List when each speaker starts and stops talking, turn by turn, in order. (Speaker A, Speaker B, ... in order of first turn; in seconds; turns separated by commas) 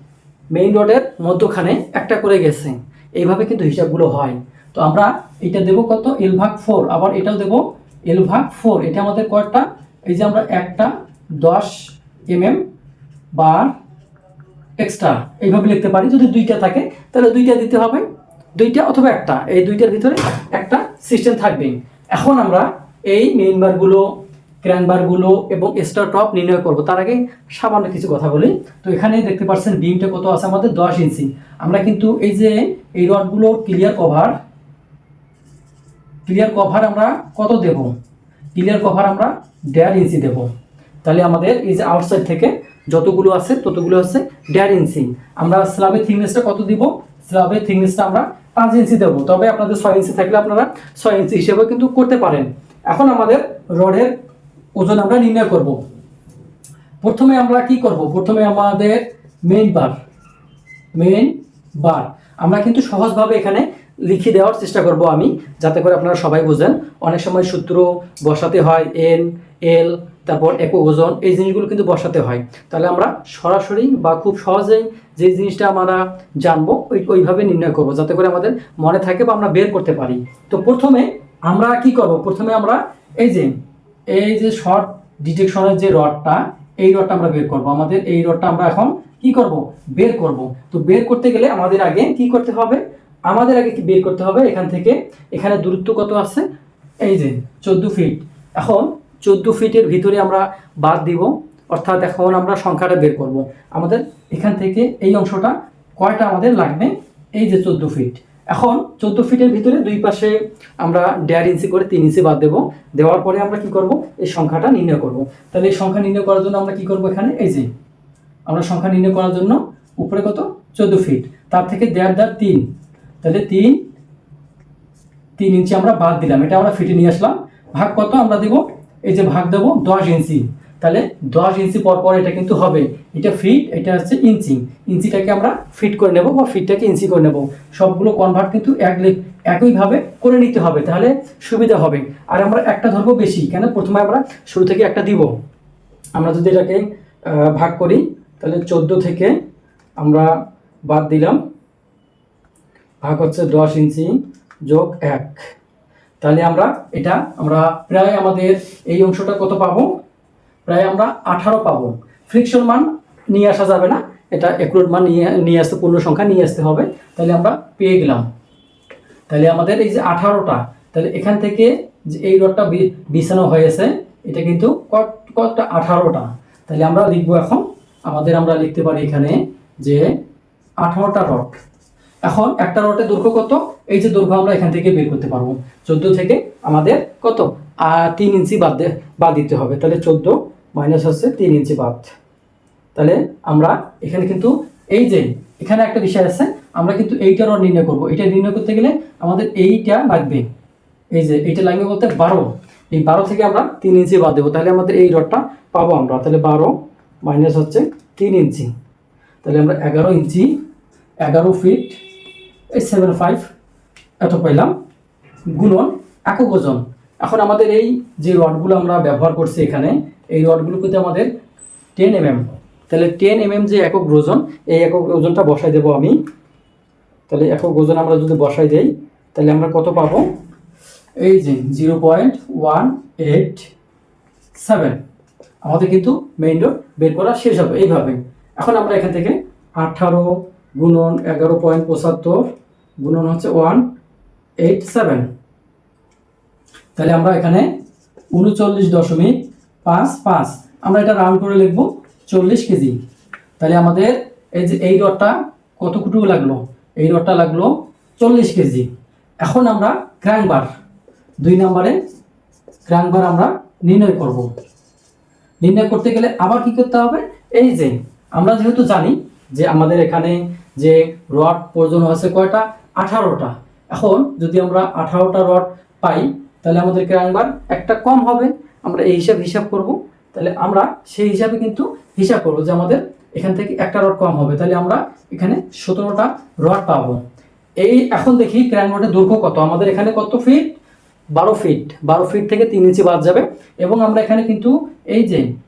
Speaker A: 0.5-12.6, Speaker A: 13.4-13.7, Speaker A: 14.8-18.0, Speaker A: 18.6-24.1, Speaker A: 24.6-34.3, Speaker A: 36.3-37.9, Speaker A: 38.5-40.5, Speaker A: 41.0-54.1, Speaker A: 54.8-55.8, Speaker A: 57.0-60.0, Speaker A: 61.0-83.5, Speaker A: 84.1-96.5, Speaker A: 97.0-117.7, Speaker A: 118.5-122.7, Speaker A: 123.2-123.8, Speaker A: 125.4-145.3, Speaker A: 146.2-149.3, Speaker A: 150.0-150.3, Speaker A: 150.9-151.4, Speaker A: 153.0-155.5, Speaker A: 156.2-160.0, Speaker A: 160.7-168.3, Speaker A: 169.3-180.1, Speaker A: 180.8-181.6, Speaker A: 182.2-192.1, Speaker A: 192.9-200.5, Speaker A: 201.1-208.7, Speaker A: 209.4-210.5, Speaker A: 211.2-212.0, Speaker A: 212.7-213.5, Speaker A: 214.2-214.7, Speaker A: 215.5-221.3, Speaker A: 222.0-226.2, Speaker A: 227.3-230.3, Speaker A: 231.2-233.7, Speaker A: 234.6-235.0, Speaker A: 235.7-243.8, Speaker A: 244.6-245.3, Speaker A: 247.0-247.7, Speaker A: 248.3-253.0, Speaker A: 253.6-258.9, Speaker A: 259.4-260.7, Speaker A: 261.4-262.0, Speaker A: 262.9-264.5, Speaker A: 265.6-287.2, Speaker A: 287.8-290.7, Speaker A: 291.4-295.5